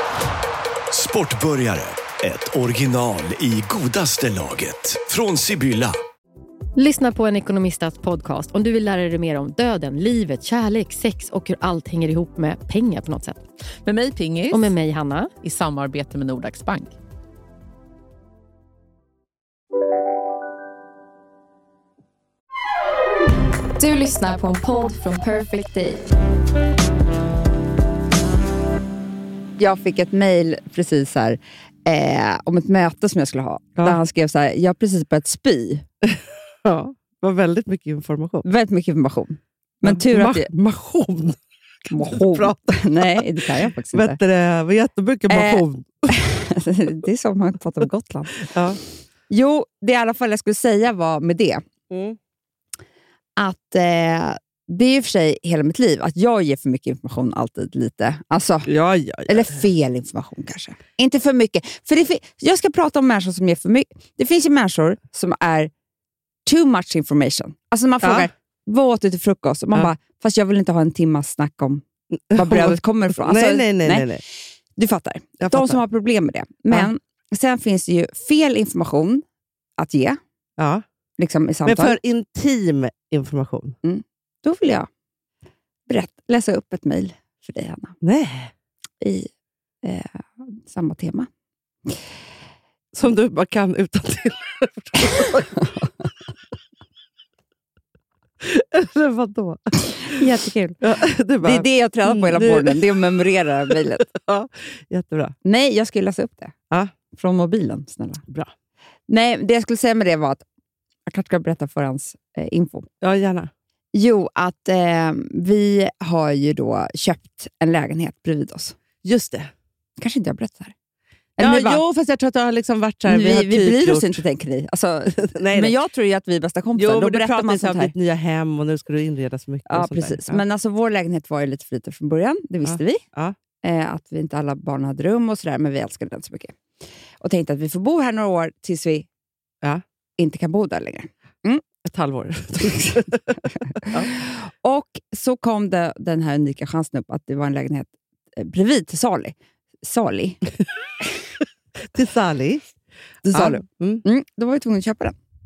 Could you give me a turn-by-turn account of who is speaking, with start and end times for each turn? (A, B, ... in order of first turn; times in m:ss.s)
0:00.9-0:06.0 A
0:06.8-0:13.4 B
0:13.8-0:14.7 C
0:14.5-0:15.3 B
0:15.4-0:16.9 C
0:23.8-0:26.1 D
0:29.6-0:35.8 E
0:36.1-0:38.5 F
0:38.4-0:40.5 E
0:39.8-0:41.4 F
0:41.9-0:45.9 F
0:41.9-0:44.2 E
0:45.3-0:48.5 E
0:48.4-0:48.8 F
0:49.3-0:51.6 E
0:51.9-0:52.2 F
0:53.4-0:58.7 E
0:58.7-0:59.6 F
0:59.3-1:05.7 E
1:06.5-1:14.1 E
1:08.0-1:08.3 F
1:12.3-1:14.2 F
1:14.8-1:19.2 E
1:15.4-1:15.8 F
1:19.8-1:20.2 E
1:20.6-1:20.8 F
1:21.2-1:22.0 E
1:21.6-1:23.8 F
1:23.8-1:24.9 E
1:25.9-1:28.0 E
1:28.0-1:28.5 F
1:29.0-1:29.3 E
1:29.8-1:31.3 E
1:32.9-1:35.5 F
1:35.6-1:35.9 E
1:38.4-1:39.7 F
1:39.9-1:40.9 E
1:40.8-1:42.9 F
1:41.4-1:44.1 E
1:43.7-1:45.4 F
1:45.4-1:46.5 E
1:47.1-1:48.2 E
1:49.1-1:50.4 E
1:51.1-1:52.9 E
1:53.0-1:53.5 F
1:53.9-1:58.8 E
1:59.0-1:59.5 F
2:00.0-2:00.7 E
2:01.4-2:01.8 E
2:01.4-2:04.2 F
2:03.1-2:07.9 E
2:05.1-2:05.7 F
2:06.8-2:10.4 F
2:09.7-2:13.0 E
2:12.6-2:13.4 F
2:13.6-2:16.6 E
2:17.2-2:19.1 E
2:20.2-2:21.6 E
2:21.8-2:23.3 F
2:23.8-2:30.4 E
2:31.9-2:32.6 F
2:33.2-2:34.0 F
2:33.2-2:35.2 E